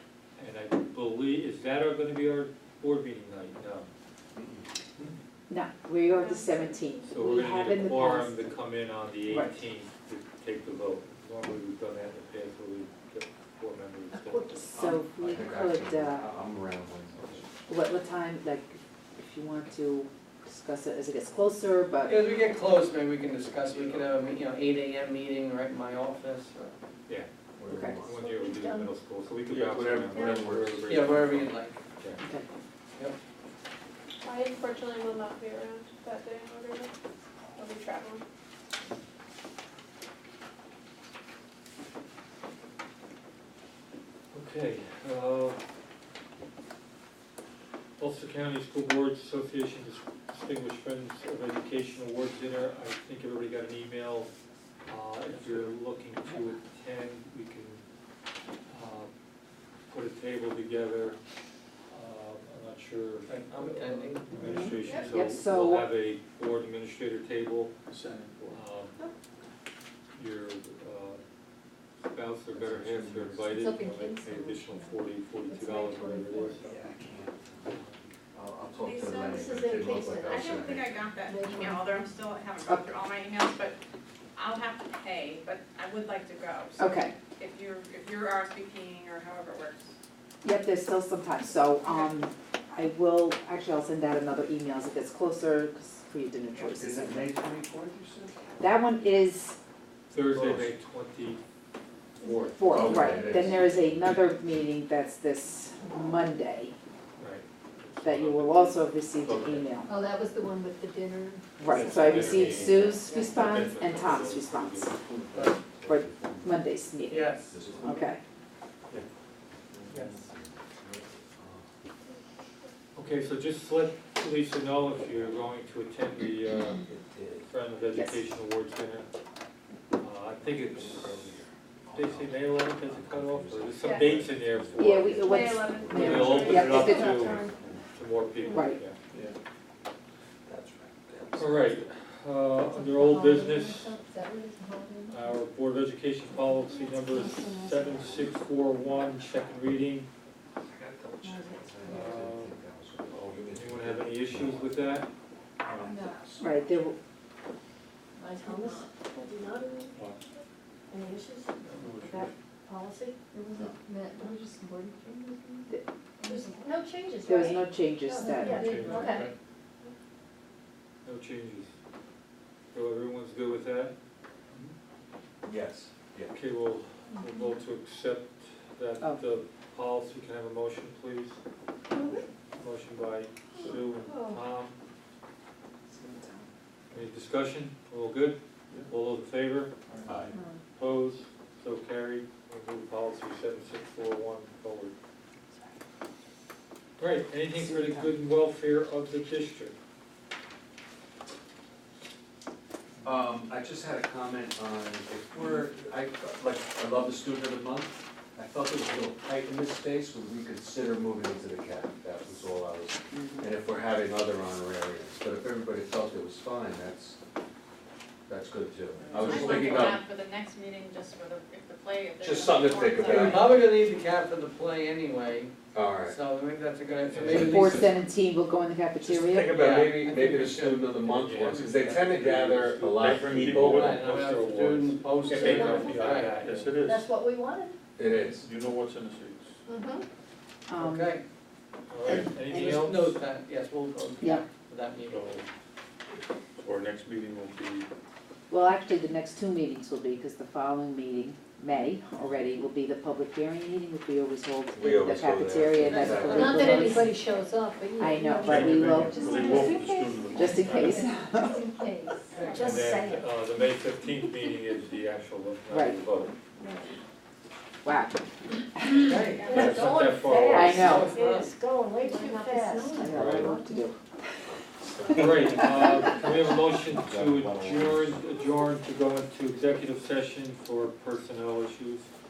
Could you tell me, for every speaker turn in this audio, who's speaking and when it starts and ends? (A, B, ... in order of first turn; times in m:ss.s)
0:00.4-0:03.9 A
0:04.4-0:04.6 B
0:05.5-0:08.5 C
0:07.1-0:14.7 A
0:09.3-0:09.6 C
0:14.4-0:16.3 C
0:14.7-0:17.6 B
0:17.7-0:22.3 C
0:22.0-0:26.8 D
0:27.6-0:28.3 B
0:27.7-0:28.0 C
0:27.8-0:32.2 A
0:28.2-0:28.9 E
0:29.5-0:29.9 F
0:29.7-0:31.4 B
0:30.9-0:31.8 D
0:32.2-0:32.4 C
0:34.2-0:36.9 G
0:37.6-0:38.2 G
0:44.3-0:45.6 A
0:48.0-0:54.3 A
0:54.8-0:57.8 A
0:55.3-0:55.7 D
0:58.7-0:59.1 A
0:59.9-1:01.2 A
1:01.9-1:07.7 A
1:03.2-1:04.7 D
1:04.3-1:05.2 F
1:04.4-1:05.9 C
1:07.9-1:08.6 F
1:08.5-1:09.0 A
1:10.1-1:11.2 A
1:12.0-1:16.7 A
1:12.5-1:13.6 B
1:13.6-1:14.4 E
1:15.5-1:16.2 E
1:16.8-1:17.8 B
1:17.7-1:18.0 A
1:18.3-1:21.0 B
1:18.8-1:19.7 H
1:19.4-1:20.5 E
1:20.2-1:23.8 H
1:21.3-1:21.8 E
1:22.6-1:22.9 C
1:24.4-1:29.9 H
1:26.8-1:27.1 C
1:30.4-1:37.3 C
1:31.8-1:32.2 H
1:36.7-1:38.7 B
1:38.6-1:39.6 C
1:40.1-1:41.4 A
1:40.2-1:40.7 B
1:42.2-1:43.2 A
1:42.4-1:46.7 C
1:42.6-1:44.2 B
1:42.9-1:43.4 E
1:47.2-1:49.7 A
1:48.0-1:50.0 C
1:49.9-1:53.0 E
1:51.6-1:55.0 A
1:51.6-1:55.0 C
1:51.9-1:52.7 F
1:54.0-1:54.3 B
1:55.0-1:56.6 B
1:55.3-1:55.6 D
1:55.8-1:58.2 C
1:57.1-1:57.6 D
1:57.4-1:58.1 B
1:59.7-2:01.7 B
2:02.9-2:06.8 A
2:06.8-2:07.5 B
2:07.4-2:09.1 A
2:07.9-2:08.2 C
2:10.0-2:11.4 A
2:10.4-2:17.8 B
2:11.9-2:15.2 A
2:14.8-2:17.3 C
2:15.2-2:17.3 G
2:15.9-2:19.0 A
2:17.0-2:17.5 E
2:18.5-2:18.8 C
2:20.5-2:21.7 B
2:21.4-2:24.0 A
2:22.7-2:25.2 E
2:25.1-2:30.1 A
2:27.0-2:28.1 E
2:30.6-2:35.0 B
2:31.2-2:32.0 E
2:31.8-2:32.6 A
2:33.1-2:33.6 F
2:33.5-2:35.1 A
2:35.6-2:36.6 B
2:35.7-2:36.0 F
2:36.4-2:37.0 C
2:38.2-2:39.9 E
2:38.4-2:38.9 G
2:40.9-2:44.4 E
2:41.6-2:42.3 F
2:43.9-2:45.6 G
2:46.2-2:49.3 E
2:46.2-2:46.7 G
2:47.2-2:48.9 C
2:48.4-2:49.3 A
2:49.0-2:49.3 F
2:51.0-2:51.7 A
2:52.7-2:53.9 A
2:55.4-2:56.3 B
2:56.3-3:01.4 A
3:02.0-3:02.2 E
3:02.5-3:04.7 A
3:04.1-3:04.3 E
3:05.9-3:06.5 C
3:06.9-3:09.7 A
3:09.9-3:10.4 F
3:10.0-3:10.3 B
3:10.7-3:14.9 A
3:17.0-3:19.7 A
3:17.5-3:18.1 C
3:23.0-3:37.2 B
3:33.1-3:33.5 C
3:38.3-3:40.0 B
3:39.0-3:39.8 D
3:39.2-3:43.6 H
3:42.2-3:43.5 B
3:43.0-3:48.0 D
3:45.7-3:46.2 B
3:47.1-3:47.7 A
3:47.2-3:47.8 B
3:47.4-3:49.6 C
3:49.0-3:54.0 B
3:49.5-3:52.6 D
3:51.0-3:53.6 A
3:52.9-3:57.1 F
3:53.6-3:56.5 D
3:54.3-3:56.7 A
3:56.8-3:57.7 E
3:58.0-3:58.5 B
3:58.1-3:59.6 F
3:59.7-4:00.0 E
4:00.7-4:01.1 C
4:00.8-4:01.2 D
4:01.9-4:03.2 A
4:02.4-4:05.2 D
4:05.1-4:05.4 F
4:06.6-4:07.9 F
4:08.5-4:17.1 C
4:14.7-4:17.0 B
4:15.8-4:23.2 E
4:18.0-4:19.6 C
4:18.4-4:21.0 F
4:20.3-4:21.7 C
4:20.6-4:21.0 A
4:22.3-4:22.9 D
4:22.4-4:26.3 A
4:25.7-4:26.0 C
4:27.8-4:28.2 C
4:28.7-4:29.2 C
4:28.9-4:31.5 D
4:29.4-4:33.7 E
4:29.4-4:31.1 A
4:30.5-4:31.1 C
4:32.0-4:33.0 G
4:32.9-4:34.0 C
4:33.1-4:33.5 A
4:34.8-4:35.8 B
4:35.1-4:42.1 A
4:36.8-4:38.2 B